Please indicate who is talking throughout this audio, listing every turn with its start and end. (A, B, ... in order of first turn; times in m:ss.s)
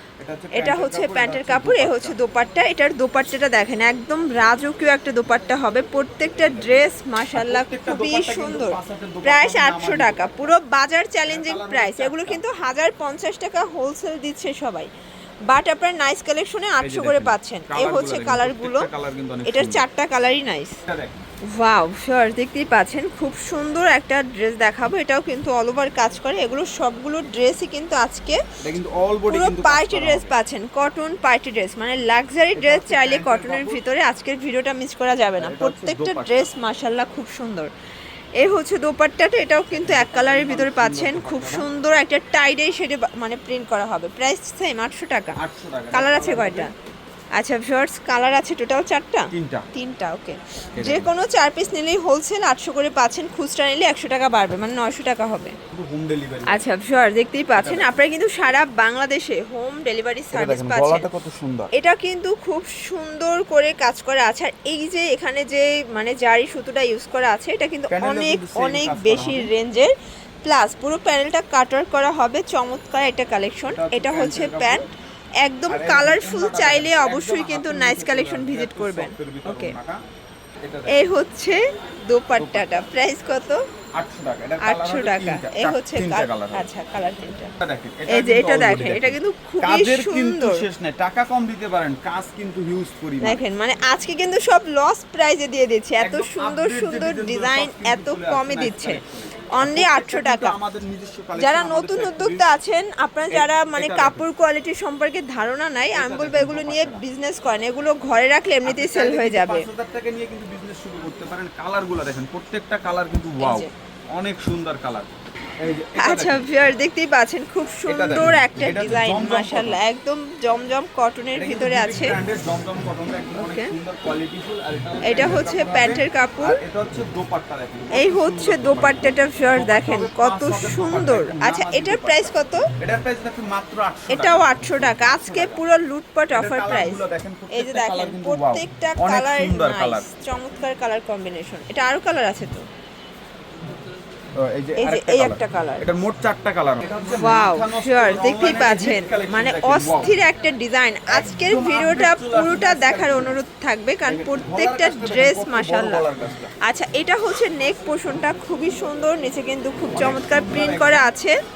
0:00.2-0:02.2 A
0:00.5-0:14.9 B
0:06.4-0:10.5 A
0:11.3-0:12.4 A
0:15.5-0:18.9 B
0:16.8-0:19.8 A
0:19.4-0:20.8 B
0:20.9-0:21.2 A
0:21.5-0:28.4 B
0:28.6-0:30.3 A
0:29.3-0:37.7 B
0:32.5-0:33.8 A
0:35.4-0:36.5 A
0:38.4-0:45.4 B
0:39.7-0:41.7 A
0:45.4-0:46.7 A
0:45.9-0:46.7 B
0:47.3-0:55.6 B
0:49.3-0:49.6 A
0:50.7-0:51.1 A
0:55.7-0:56.6 A
0:56.5-1:01.0 B
0:57.6-0:57.9 A
1:00.3-1:01.7 A
1:01.7-1:09.9 B
1:07.9-1:09.5 A
1:10.4-1:14.9 B
1:13.7-1:14.9 A
1:15.4-1:19.7 B
1:15.7-1:20.0 A
1:20.6-1:21.0 A
1:20.9-1:23.6 B
1:22.4-1:22.7 A
1:24.0-1:26.7 A
1:24.6-1:27.5 B
1:27.6-1:33.4 A
1:28.1-1:30.6 B
1:33.2-1:40.6 B
1:36.0-1:42.5 A
1:41.4-1:49.7 B
1:43.3-1:44.2 A
1:45.9-1:47.0 A
1:48.6-1:56.4 A
1:53.4-1:53.7 B
1:56.0-2:02.2 B
1:57.9-1:59.8 A
2:01.3-2:15.6 A
2:03.3-2:03.7 B
2:05.0-2:06.6 B
2:07.9-2:12.7 B
2:14.1-2:22.6 B
2:16.3-2:20.1 A
2:24.4-2:30.1 A
2:24.8-2:25.9 B
2:27.1-2:36.0 B
2:31.1-2:33.4 A
2:34.1-2:36.5 A
2:36.6-2:41.3 B
2:39.9-2:41.1 A